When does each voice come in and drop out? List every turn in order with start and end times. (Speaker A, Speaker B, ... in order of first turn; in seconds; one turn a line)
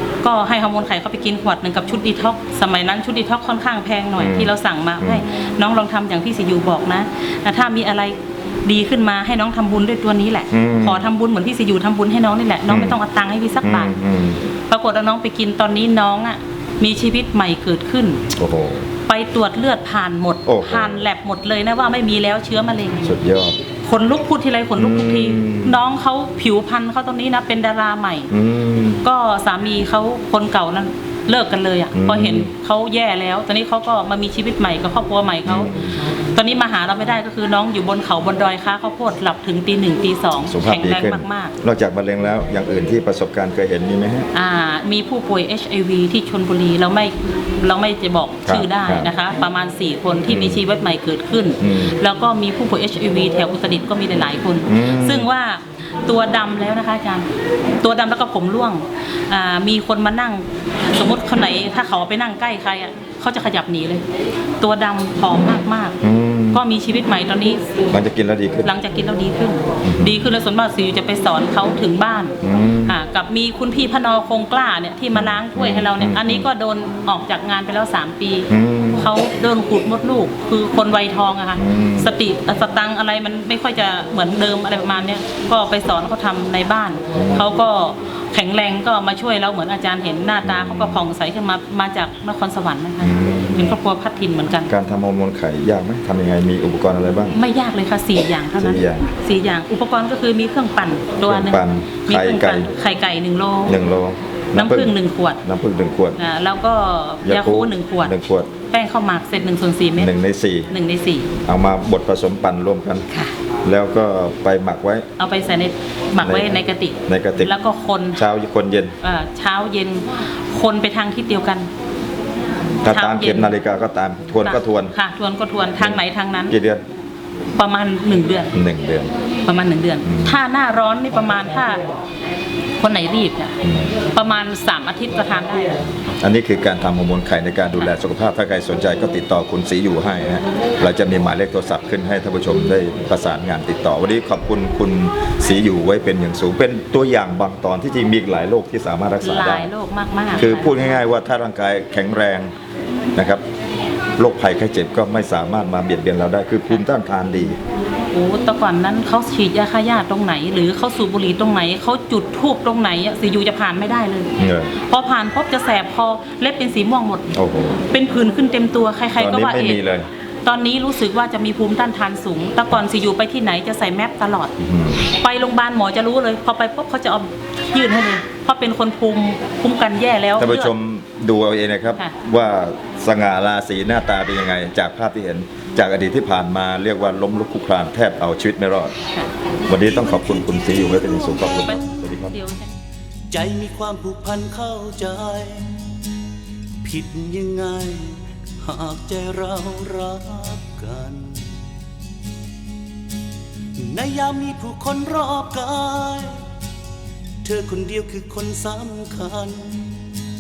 Speaker A: 0.2-13.9
Speaker B: 4.2-5.2
Speaker B: 10.5-11.1
Speaker B: 12.7-13.0
Speaker B: 13.6-14.4
Speaker A: 14.7-18.2
Speaker B: 18.3-18.9
Speaker A: 19.1-23.1
Speaker B: 20.5-21.0
Speaker B: 23.0-23.6
Speaker A: 23.8-28.3
Speaker B: 24.8-25.8
Speaker B: 28.3-29.0
Speaker A: 29.0-41.5
Speaker B: 31.9-32.5
Speaker B: 35.5-36.0
Speaker B: 40.4-44.3
Speaker A: 44.3-57.3
Speaker B: 48.5-49.1
Speaker B: 50.3-50.6
Speaker B: 51.6-52.0
Speaker B: 54.7-55.3
Speaker A: 57.8-64.0
Speaker A: 64.6-66.0
Speaker B: 66.0-66.6
Speaker A: 66.5-67.7
Speaker B: 67.9-68.7
Speaker A: 68.6-94.7
Speaker B: 69.8-70.2
Speaker B: 72.4-73.0
Speaker B: 75.1-76.5
Speaker B: 78.5-79.1
Speaker B: 81.6-82.1
Speaker B: 87.1-87.5
Speaker B: 90.4-91.0
Speaker B: 93.0-93.8
Speaker B: 94.7-97.4
Speaker A: 97.3-103.8
Speaker B: 98.6-99.1
Speaker B: 101.2-102.7
Speaker B: 103.7-106.2
Speaker A: 104.5-105.4
Speaker A: 106.2-108.2
Speaker B: 107.2-108.5
Speaker A: 108.7-110.1
Speaker B: 110.0-110.7
Speaker A: 110.7-111.3
Speaker B: 111.4-113.1
Speaker B: 113.6-115.1
Speaker A: 115.2-118.2
Speaker B: 116.2-117.5
Speaker B: 118.2-119.0
Speaker A: 119.0-121.7
Speaker B: 122.8-125.0
Speaker A: 122.9-123.5
Speaker A: 124.4-126.6
Speaker B: 125.8-126.8
Speaker A: 127.5-128.5
Speaker B: 128.5-129.1
Speaker A: 129.4-131.8
Speaker B: 130.0-130.4
Speaker A: 132.8-133.6
Speaker B: 133.6-134.0
Speaker A: 134.1-135.8
Speaker B: 135.8-149.7
Speaker A: 149.2-151.0
Speaker B: 150.4-152.5
Speaker B: 153.2-153.4
Speaker B: 154.2-157.6
Speaker A: 158.1-167.3
Speaker B: 164.4-164.7
Speaker B: 167.3-167.8
Speaker A: 167.9-169.8
Speaker B: 169.2-170.1
Speaker A: 170.4-174.5
Speaker B: 174.6-175.1
Speaker A: 175.2-180.7
Speaker B: 180.4-188.9
Speaker B: 189.7-192.4
Speaker C: 189.7-192.1
Speaker A: 191.5-192.7
Speaker C: 193.3-195.8
Speaker C: 196.8-201.5
Speaker C: 203.8-206.4
Speaker C: 207.4-210.1